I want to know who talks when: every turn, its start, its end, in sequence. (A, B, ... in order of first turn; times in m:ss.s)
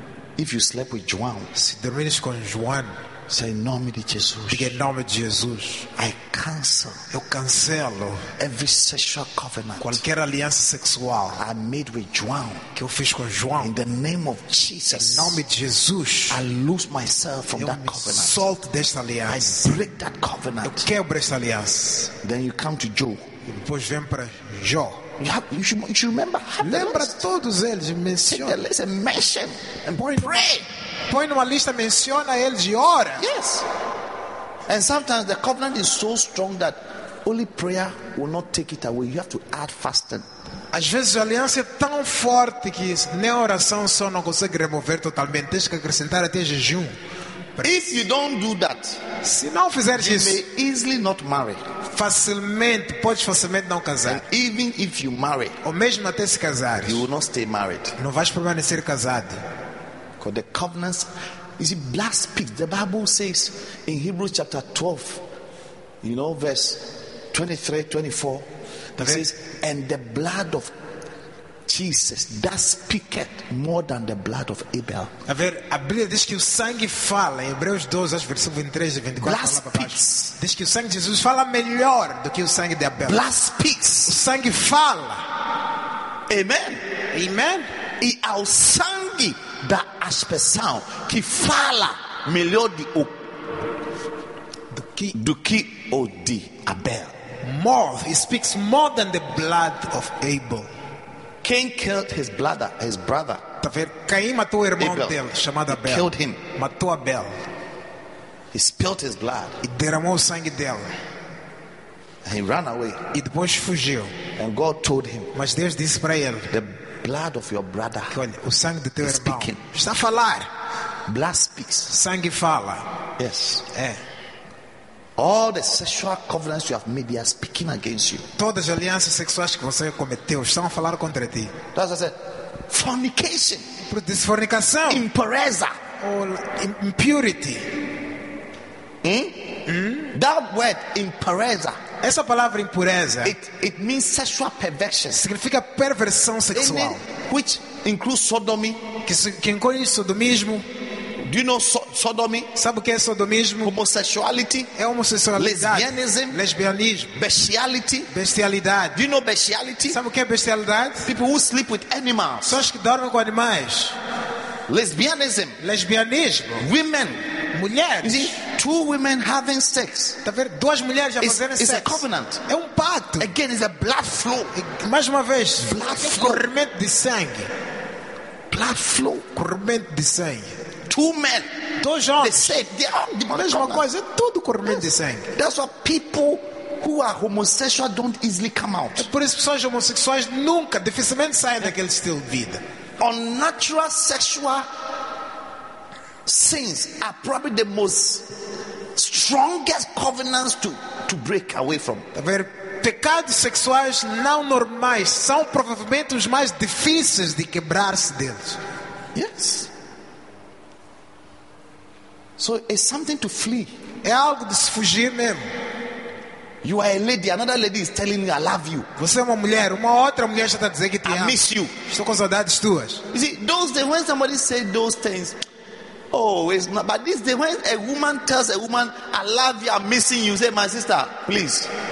0:00.4-0:01.5 A
0:01.6-0:03.0 B
0:03.3-0:04.7 A
0:04.5-0:05.9 B
0:06.0-0:07.0 A
0:07.1-0:08.3 B
0:08.4-0:10.0 A
0:09.8-0:11.4 B
0:11.4-0:12.6 A
0:12.8-0:13.7 B
0:13.6-0:15.4 A
0:15.0-0:16.4 B
0:16.3-0:18.4 A
0:17.6-0:19.6 B
0:19.3-0:20.9 A
0:20.6-0:22.1 B
0:22.2-0:23.3 A
0:23.5-0:25.0 B
0:25.2-0:27.2 A
0:26.6-0:28.6 B
0:28.2-0:30.7 A
0:30.0-0:30.4 B
0:31.1-0:33.2 B
0:33.2-0:33.7 A
0:34.7-0:40.3 A
0:40.7-0:47.0 B
0:47.6-0:47.9 B
0:47.6-0:49.0 A
0:49.2-0:50.4 B
0:50.0-0:51.6 A
0:51.9-0:54.2 B
0:54.1-0:55.6 A
0:55.6-0:57.0 B
0:56.8-0:58.0 A
0:58.0-0:59.4 B
1:00.2-1:05.2 A
1:06.0-1:08.5 A
1:09.0-1:09.2 B
1:09.0-1:10.7 A
1:11.7-1:15.1 A
1:15.3-1:23.2 B
1:19.2-1:20.4 A
1:23.0-1:24.2 A
1:24.1-1:25.2 B
1:26.3-1:26.8 A
1:27.1-1:27.7 B
1:28.0-1:33.2 A
1:34.7-1:35.2 B
1:35.1-1:37.1 A
1:37.4-1:40.7 B
1:41.4-1:43.4 A
1:43.6-1:47.3 B
1:44.8-1:46.4 A
1:48.5-1:49.6 A
1:49.6-1:50.9 B
1:52.2-1:53.0 A
1:53.1-1:54.2 B
1:54.4-1:55.3 A
1:55.3-1:56.5 B
1:56.5-1:58.1 A
1:58.1-2:00.5 B
1:59.0-1:59.6 A
2:01.1-2:01.9 A
2:01.9-2:02.9 B
2:03.2-2:03.6 A
2:03.7-2:04.0 B
2:05.2-2:08.3 A
2:08.4-2:11.5 B
2:11.7-2:13.6 A
2:13.8-2:15.1 B
2:14.9-2:15.8 A
2:16.0-2:17.7 B
2:19.0-2:19.6 A
2:19.7-2:20.1 B
2:20.1-2:21.8 A
2:22.0-2:23.4 B
2:23.2-2:25.2 A
2:25.1-2:27.0 B
2:26.5-2:28.8 A
2:29.0-2:30.7 B
2:31.2-2:32.5 A
2:32.6-2:33.7 B
2:33.6-2:34.7 A
2:34.8-2:37.2 B
2:35.4-2:36.4 A
2:37.2-2:38.1 A
2:38.1-2:39.0 B
2:38.9-2:40.0 A
2:39.9-2:41.1 B
2:41.1-2:42.6 A
2:42.4-2:44.0 B
2:44.7-2:45.6 A
2:45.6-2:46.7 B
2:46.6-2:47.2 A
2:47.5-2:48.4 B
2:48.0-2:50.2 A
2:50.2-2:53.3 B
2:51.2-2:52.4 A
2:53.2-2:54.5 A
2:54.6-2:57.5 B
2:55.6-2:56.5 A
2:58.5-2:59.3 A
2:59.4-3:00.6 B
3:00.9-3:01.5 A
3:01.8-3:02.6 B
3:02.2-3:03.8 A
3:03.4-3:05.3 B
3:04.7-3:09.1 A
3:09.0-3:12.6 B
3:13.0-3:14.7 A
3:16.3-3:18.3 A
3:19.0-3:22.1 A
3:22.1-3:28.6 B
3:29.1-3:29.7 A
3:32.4-3:33.8 A
3:34.0-3:35.5 B
3:36.6-3:38.9 A
3:39.0-3:43.0 B
3:41.0-3:41.7 A
3:43.1-3:45.4 A
3:46.1-3:51.7 A